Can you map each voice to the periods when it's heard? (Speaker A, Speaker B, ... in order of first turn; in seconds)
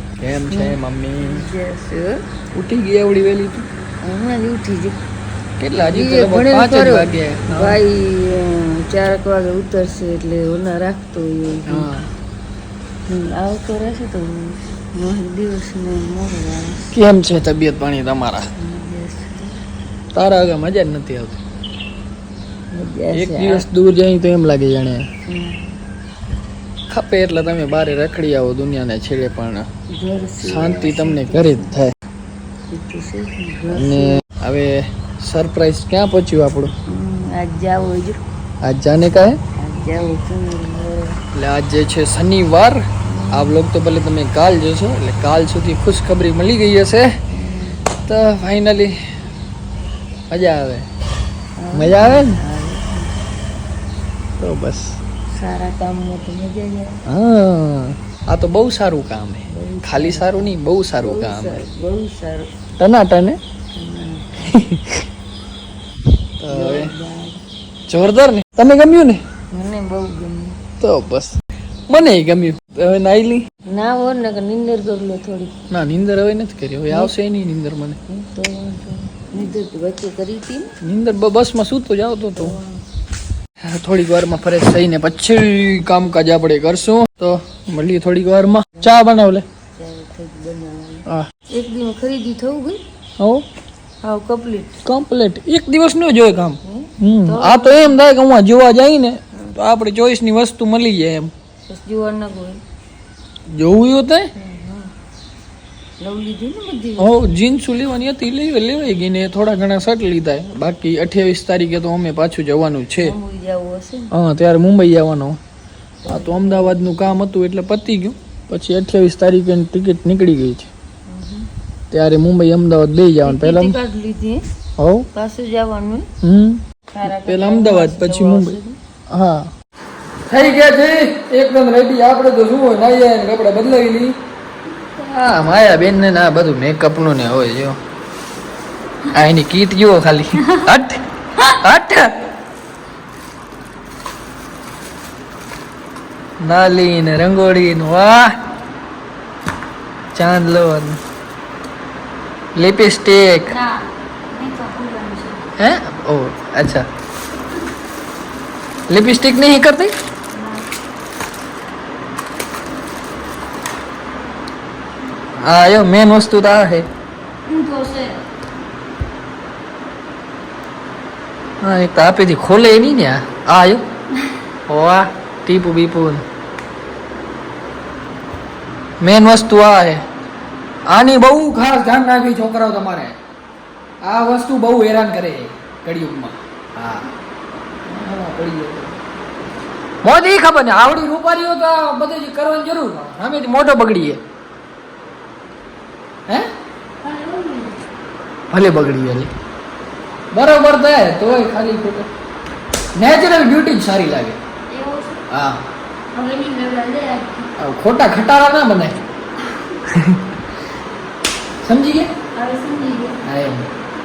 Speaker A: 0.2-1.4, 2.5-3.6, 5.6-7.8, 11.7-12.1, 16.9-18.4, 20.1-21.4, 23.1-25.1, 26.9-29.6, 30.4-31.9, 33.7-36.7, 38.6-39.4, 41.3-42.8, 43.3-47.1, 48.0-48.9, 50.3-50.9, 51.7-52.4, 54.4-55.0, 57.1-61.7, 62.8-63.4, 64.5-65.0, 66.4-66.9, 67.9-69.2, 70.8-71.3, 71.9-73.4, 75.7-78.0, 80.8-82.6, 83.6-89.4, 94.8-101.3, 103.5-104.3, 107.0-113.1, 114.1-115.4, 116.0-120.7, 121.9-123.8, 124.8-125.1, 126.2-128.6, 129.1-129.5, 130.3-134.2, 135.0-137.8, 139.1-142.1, 146.4-148.3, 150.1-151.0, 152.6-153.6, 155.6-156.8, 158.9-159.9, 165.4-166.8, 171.6-173.8, 174.7-176.2, 179.0-180.0, 180.9-183.2, 184.0-187.1, 187.9-188.9, 190.0-194.2, 198.5-199.3, 200.3-202.1, 202.9-204.4, 205.3-205.6, 207.6-209.0, 209.9-210.3, 211.6-212.1, 213.2-213.7
Speaker B: 0.5-2.2, 4.0-5.0, 5.8-11.9, 13.1-16.9, 18.6-19.5, 22.7-23.6, 25.3-25.8, 29.9-31.8, 32.7-34.2, 36.9-38.2, 39.6-41.2, 43.0-43.6, 47.3-47.8, 51.6-53.2, 55.3-57.0, 59.5-62.5, 63.7-64.3, 66.5-67.4, 69.5-70.6, 73.7-75.5, 78.1-80.7, 82.3-82.8, 88.8-89.0, 89.7-92.8, 94.0-94.8, 96.6-98.0, 101.7-102.6, 104.3-104.9, 106.0-107.1, 113.0-114.1, 116.0-116.8, 121.1-121.5, 123.2-124.4, 125.1-126.1, 126.9-128.8, 153.4-153.8, 154.3-155.5, 160.3-160.6, 167.5-168.2, 197.0-197.7, 204.7-205.1, 206.1-207.5, 212.3-213.2